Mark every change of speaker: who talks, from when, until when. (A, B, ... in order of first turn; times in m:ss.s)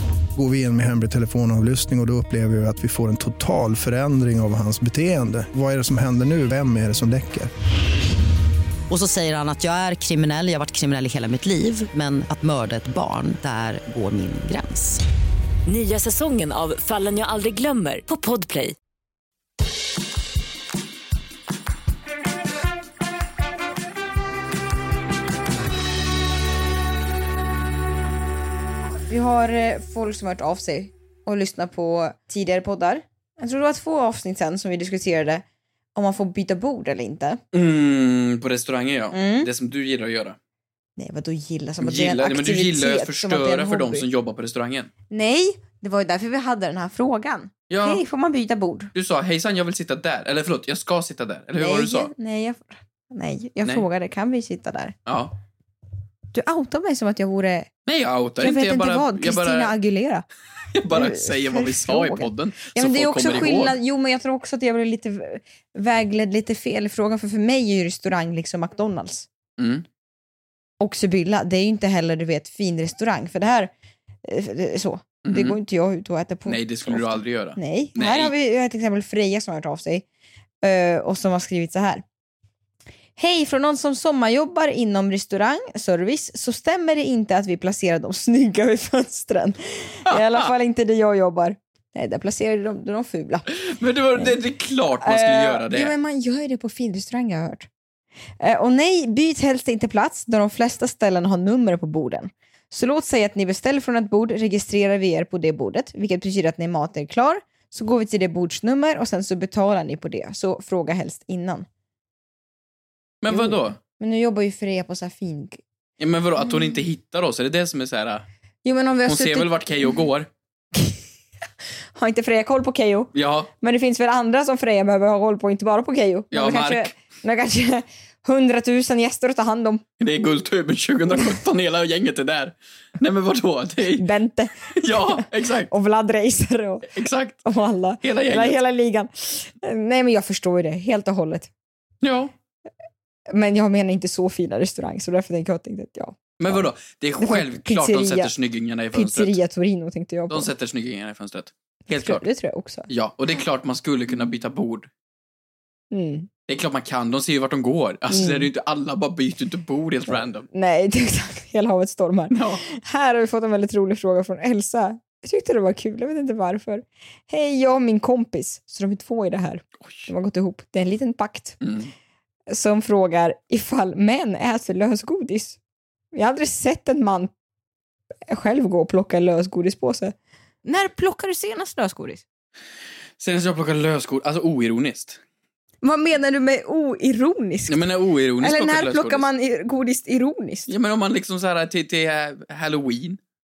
0:00.4-0:07.5 A
0:08.9-0:15.0 B
0:15.6-0:18.7 C
0:29.1-0:35.4 D
0:35.9-0:37.4 D
0:37.5-0:40.4 E
0:39.1-0:39.5 D
0:41.0-0:44.0 D
0:41.8-0:44.9 E
0:45.1-0:48.9 D
0:47.7-0:48.0 E
0:48.9-0:52.1 E
0:51.6-0:55.0 D
0:55.0-0:55.3 E
0:56.3-0:57.7 D
0:57.8-0:59.7 E
0:58.4-1:00.2 D
1:00.8-1:03.7 E
1:00.9-1:09.3 D
1:09.6-1:09.8 E
1:10.8-1:13.7 D
1:14.2-1:20.0 D
1:15.2-1:15.6 E
1:16.4-1:18.3 E
1:20.6-1:22.0 D
1:23.2-1:33.5 D
1:30.1-1:30.5 E
1:33.5-1:35.9 E
1:35.0-1:37.7 D
1:38.4-1:51.6 D
1:53.2-1:53.8 E
1:53.3-1:55.6 D
1:56.0-1:58.2 E
1:58.6-1:59.9 D
1:59.0-2:00.3 E
2:01.9-2:09.8 D
2:03.1-2:03.5 E
2:06.3-2:06.9 E
2:10.0-2:14.1 E
2:14.0-2:16.9 D
2:14.7-2:15.7 E
2:16.9-2:17.4 E
2:17.4-2:21.5 D
2:18.0-2:18.6 E
2:22.0-2:22.3 E
2:23.3-2:26.6 D
2:26.4-2:29.4 E
2:27.2-2:28.3 D
2:28.9-2:30.5 D
2:30.3-2:32.2 E
2:31.9-2:32.9 D
2:32.9-2:34.9 E
2:35.9-2:36.3 D
2:36.5-2:40.4 E
2:38.1-2:38.5 D
2:40.1-2:51.6 D
2:42.3-2:42.6 E
2:51.6-2:51.9 E
2:52.5-2:55.6 D
2:56.1-2:57.3 D
2:58.3-3:02.2 D
3:03.2-3:05.2 E
3:05.8-3:07.8 D
3:07.7-3:09.2 E
3:08.4-3:10.7 D
3:10.7-3:13.2 E